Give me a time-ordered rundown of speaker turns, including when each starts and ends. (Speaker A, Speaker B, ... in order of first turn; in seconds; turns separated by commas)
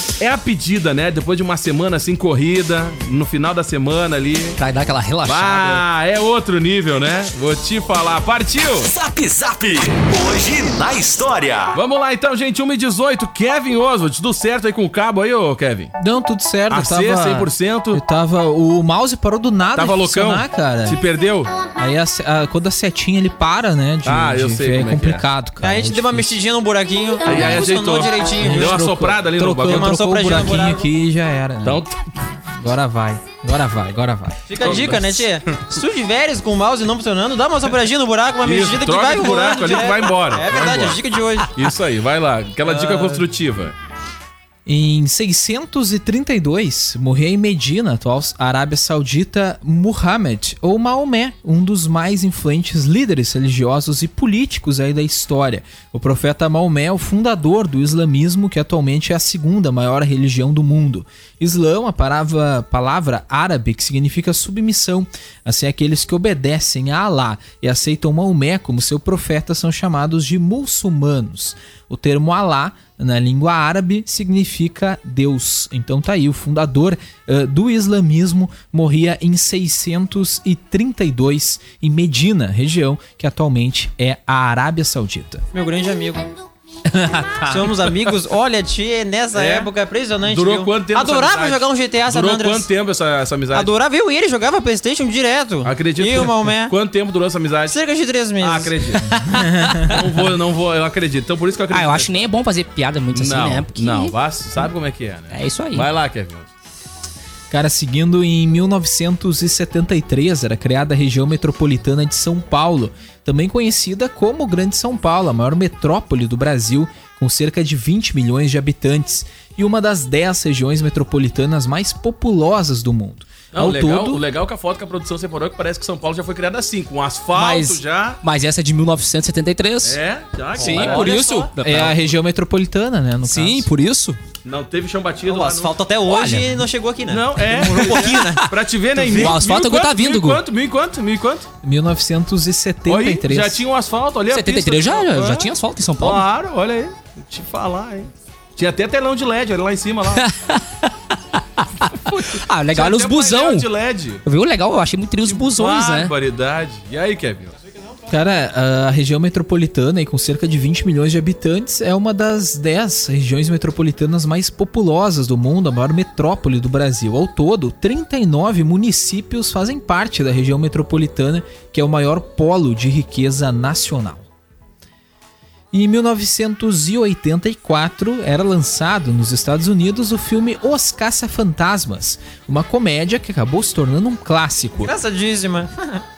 Speaker A: 0.2-4.6, Speaker B: 4.6-5.9, Speaker A: 5.2-8.9, Speaker C: 9.0-11.8, Speaker A: 11.7-15.9, Speaker D: 16.0-21.0, Speaker A: 16.7-18.0, Speaker A: 19.8-21.5, Speaker D: 21.8-26.3, Speaker A: 24.0-25.3, Speaker E: 25.6-28.8, Speaker A: 27.2-29.9, Speaker D: 28.4-31.8, Speaker E: 29.6-30.9, Speaker A: 31.6-32.0, Speaker D: 32.5-34.8, Speaker E: 34.5-41.5, Speaker A: 34.6-35.5, Speaker A: 38.4-41.0, Speaker A: 41.5-43.7, Speaker E: 42.6-43.2, Speaker D: 44.7-85.4, Speaker E: 85.5-86.3, Speaker D: 86.9-87.7, Speaker E: 87.5-92.7, Speaker A: 89.3-89.7, Speaker A: 90.2-93.7, Speaker E: 93.5-96.7, Speaker A: 95.6-97.8, Speaker E: 97.7-99.3, Speaker A: 98.4-99.2, Speaker D: 99.3-99.9, Speaker A: 99.8-102.2, Speaker B: 101.7-104.2, Speaker A: 103.1-106.5, Speaker B: 105.3-105.9, Speaker D: 107.5-124.2, Speaker A: 123.5-128.2, Speaker B: 127.3-130.0, Speaker A: 129.8-131.5, Speaker E: 130.6-131.4, Speaker B: 130.6-132.0, Speaker D: 131.6-133.7, Speaker B: 133.2-134.2, Speaker A: 134.4-135.7, Speaker E: 135.3-139.4, Speaker B: 136.1-136.5, Speaker A: 137.1-141.5, Speaker B: 137.5-140.4, Speaker D: 141.6-143.7, Speaker A: 142.9-150.3, Speaker B: 144.3-146.2, Speaker B: 150.2-150.9, Speaker B: 151.6-153.7, Speaker A: 151.9-154.2, Speaker B: 154.2-156.1, Speaker A: 155.2-157.6, Speaker D: 158.1-174.3, Speaker D: 175.7-184.9, Speaker E: 184.8-186.0